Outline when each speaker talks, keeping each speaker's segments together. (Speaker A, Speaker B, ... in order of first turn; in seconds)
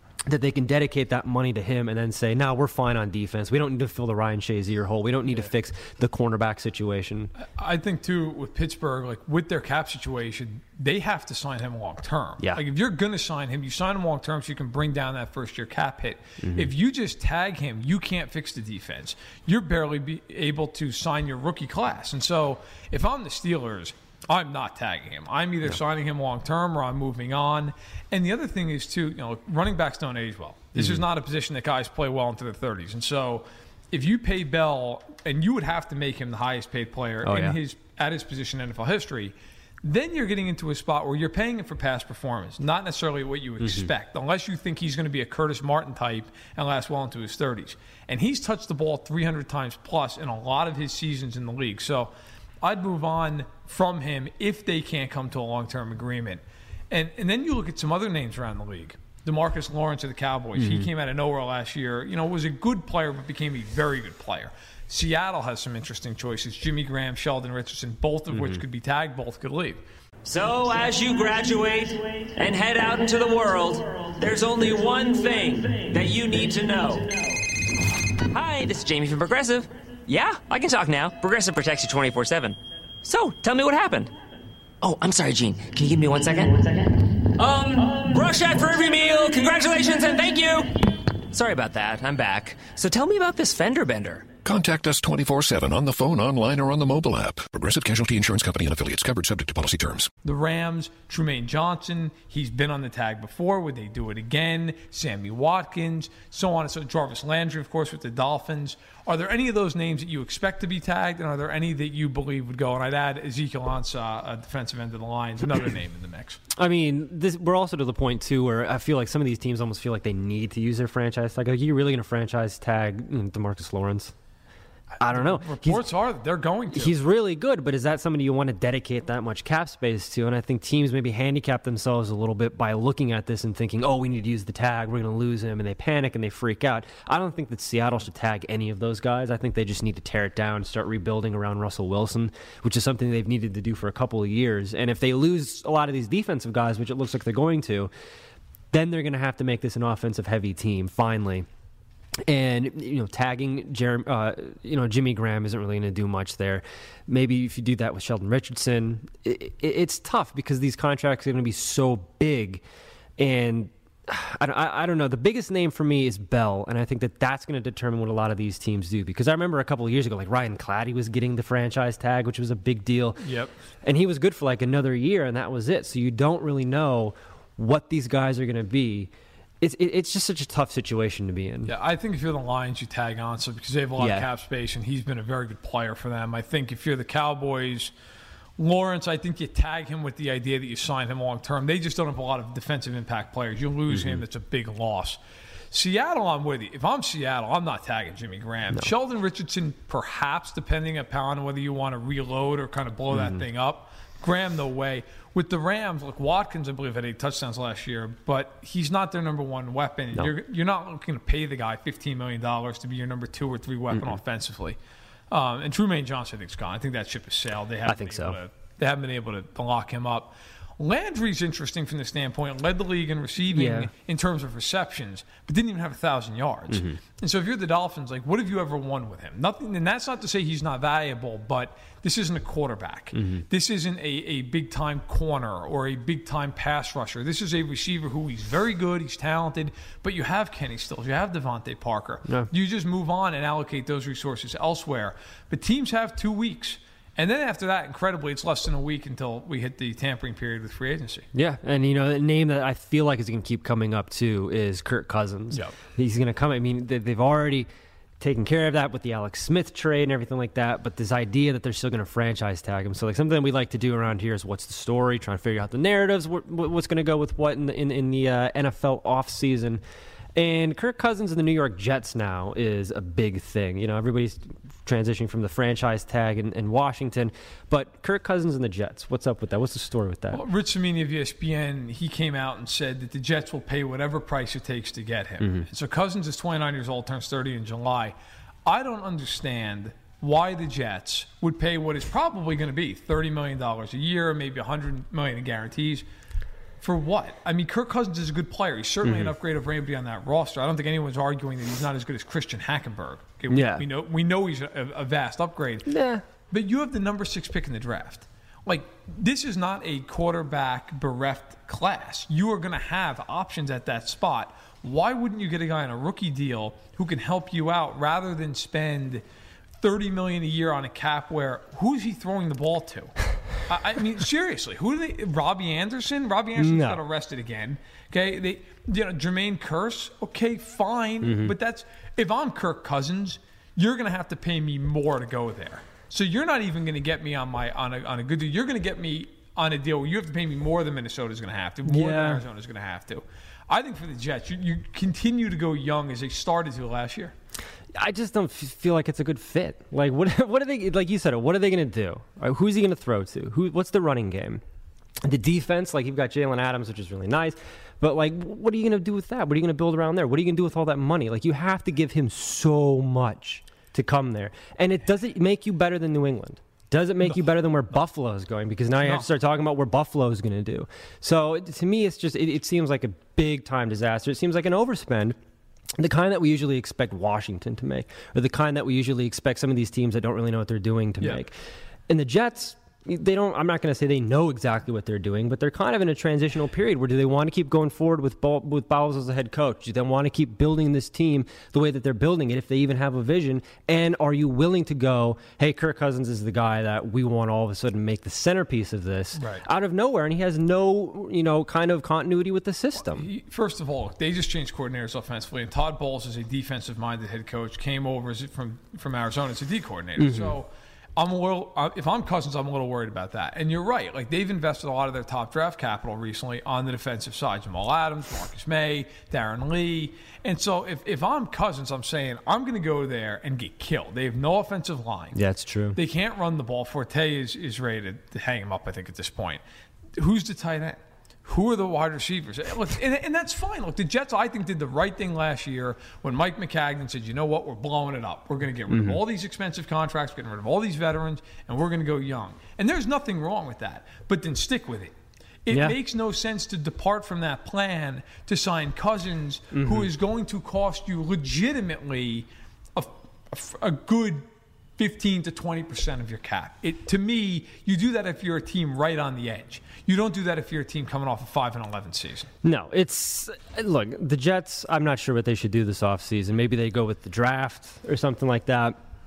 Speaker A: 0.3-7.3, 16.4-16.7, 30.8-31.0, 37.2-37.6, 43.6-43.9, 60.6-60.9, 68.3-68.6, 116.6-124.1, 125.0-125.8, 126.7-147.9, 148.7-151.5, 152.3-162.6, 163.2-173.2, 173.8-179.1, 179.6-181.7, 184.0-184.3, 203.1-203.4, 217.9-218.4, 223.5-223.9, 226.7-227.0, 233.1-233.4, 251.3-257.7, 258.2-269.8, 270.4-280.4, 285.4-285.7, 299.0-299.3, 303.5-303.9, 305.9-306.2, 326.6-327.0, 331.2-331.5, 341.9-342.4, 348.0-354.6, 355.2-375.4, 376.0-381.5, 382.1-403.3, 410.2-410.6, 425.4-426.0, 438.9-439.2, 449.7-450.1, 462.6-469.0
Speaker B: 7.4-69.8, 100.2-116.4, 125.0-127.0, 173.2-173.5, 181.7-187.9, 188.6-195.2, 195.7-214.8, 215.3-251.3, 280.3-296.1, 296.8-305.9, 306.5-319.2, 319.8-323.1, 323.7-347.3, 369.0-369.3, 399.4-399.6, 403.1-425.4, 425.9-429.6, 430.1-445.1, 445.6-454.5, 455.0-462.5
Speaker C: 70.3-77.4, 78.2-84.1, 84.8-94.3
Speaker D: 94.4-100.1